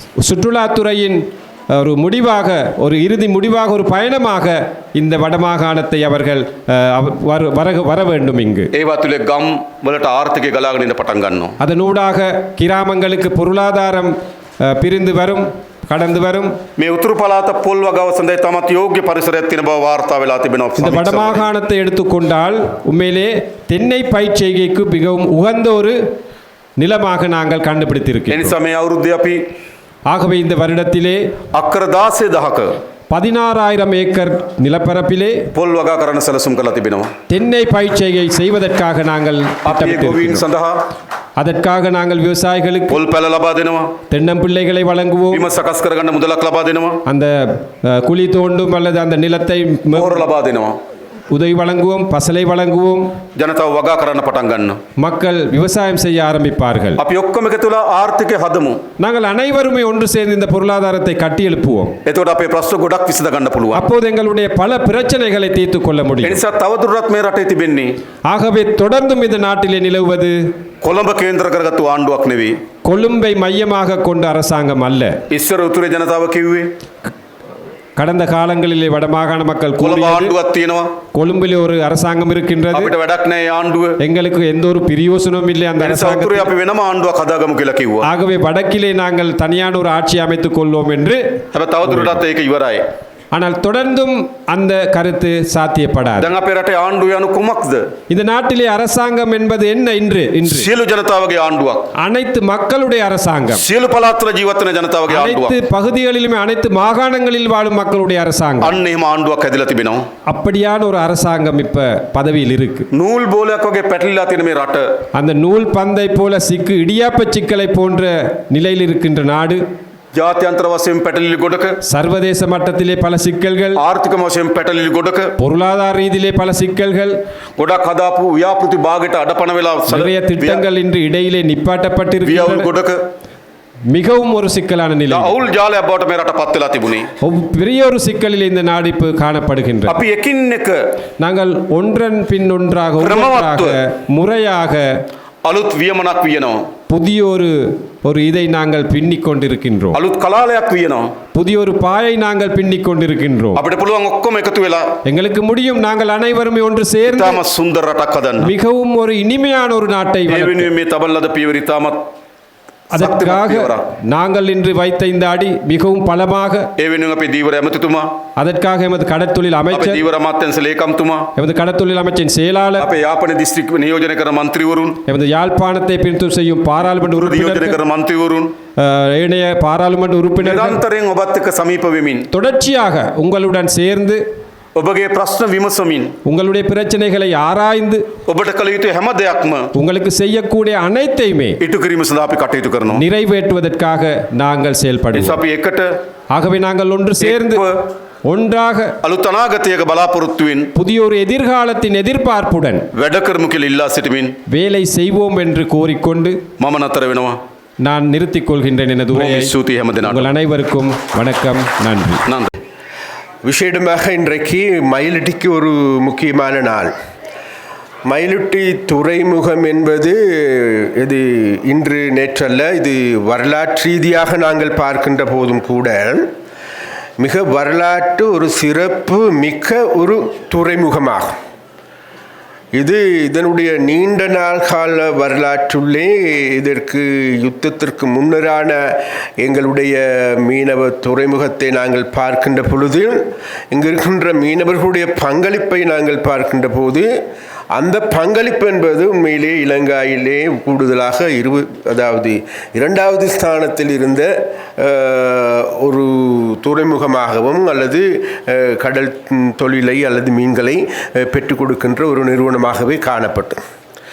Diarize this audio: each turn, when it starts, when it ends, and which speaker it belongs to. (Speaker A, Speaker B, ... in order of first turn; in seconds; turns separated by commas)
Speaker A: 0.2-8.7, Speaker B: 8.7-11.6, Speaker A: 11.6-16.6, Speaker B: 16.8-21.5, Speaker A: 20.8-26.0, Speaker A: 26.8-28.6, Speaker B: 28.3-29.4, Speaker A: 30.1-31.2, Speaker B: 31.5-32.8, Speaker A: 33.1-35.5, Speaker B: 35.5-37.1, Speaker A: 37.3-40.5, Speaker B: 39.6-40.8, Speaker A: 41.4-43.0, Speaker B: 42.9-44.0, Speaker A: 44.1-45.5, Speaker B: 45.3-47.0, Speaker A: 47.1-50.2, Speaker B: 49.9-50.8, Speaker A: 51.3-53.2, Speaker B: 53.4-54.8, Speaker A: 55.0-57.0, Speaker B: 57.0-58.8, Speaker A: 59.0-62.0, Speaker B: 62.0-63.9, Speaker A: 63.7-66.4, Speaker B: 66.2-67.9, Speaker A: 68.3-70.5, Speaker B: 70.8-72.6, Speaker A: 72.8-75.2, Speaker B: 75.3-76.7, Speaker A: 78.0-80.4, Speaker B: 79.8-80.9, Speaker A: 81.2-82.9, Speaker B: 82.7-84.0, Speaker A: 84.0-86.5, Speaker B: 85.8-88.1, Speaker A: 88.0-91.4, Speaker B: 91.5-92.8, Speaker A: 93.3-96.3, Speaker B: 96.2-97.9, Speaker A: 98.1-100.7, Speaker B: 100.5-101.9, Speaker A: 102.0-103.7, Speaker B: 103.5-105.6, Speaker A: 105.1-108.8, Speaker B: 108.6-110.0, Speaker A: 110.3-112.9, Speaker B: 112.9-114.9, Speaker A: 115.2-119.6, Speaker B: 120.2-121.8, Speaker A: 121.8-123.8, Speaker B: 123.8-125.3, Speaker A: 125.4-127.2, Speaker B: 127.6-130.6, Speaker A: 129.9-132.7, Speaker B: 132.2-133.0, Speaker A: 133.9-135.3, Speaker B: 135.1-137.1, Speaker A: 137.2-140.0, Speaker B: 139.9-140.8, Speaker A: 141.2-145.0, Speaker B: 143.0-143.8, Speaker B: 145.4-146.7, Speaker A: 146.9-150.0, Speaker B: 149.9-151.2, Speaker A: 151.3-153.6, Speaker B: 153.6-154.9, Speaker A: 155.1-157.4, Speaker B: 157.1-158.5, Speaker A: 158.4-160.7, Speaker B: 160.3-162.1, Speaker A: 162.9-166.7, Speaker B: 163.0-163.8, Speaker B: 166.8-168.1, Speaker A: 168.4-170.0, Speaker B: 169.7-171.3, Speaker A: 171.4-172.9, Speaker B: 172.8-175.0, Speaker A: 175.1-177.8, Speaker B: 177.0-178.5, Speaker A: 178.8-180.8, Speaker B: 180.4-182.3, Speaker A: 182.3-184.2, Speaker B: 184.8-186.2, Speaker A: 186.2-188.1, Speaker B: 188.3-189.7, Speaker A: 189.8-191.6, Speaker B: 191.6-193.0, Speaker A: 192.9-195.4, Speaker B: 195.1-195.9, Speaker A: 196.3-197.7, Speaker B: 197.2-197.8, Speaker A: 198.3-199.0, Speaker B: 199.0-200.7, Speaker A: 200.8-202.9, Speaker B: 202.9-204.4, Speaker A: 204.5-206.4, Speaker B: 206.6-207.4, Speaker A: 207.8-212.2, Speaker B: 209.1-210.3, Speaker B: 212.3-212.5, Speaker C: 213.4-216.9, Speaker C: 218.1-226.3, Speaker C: 227.2-231.3, Speaker C: 232.8-247.1, Speaker C: 247.8-263.6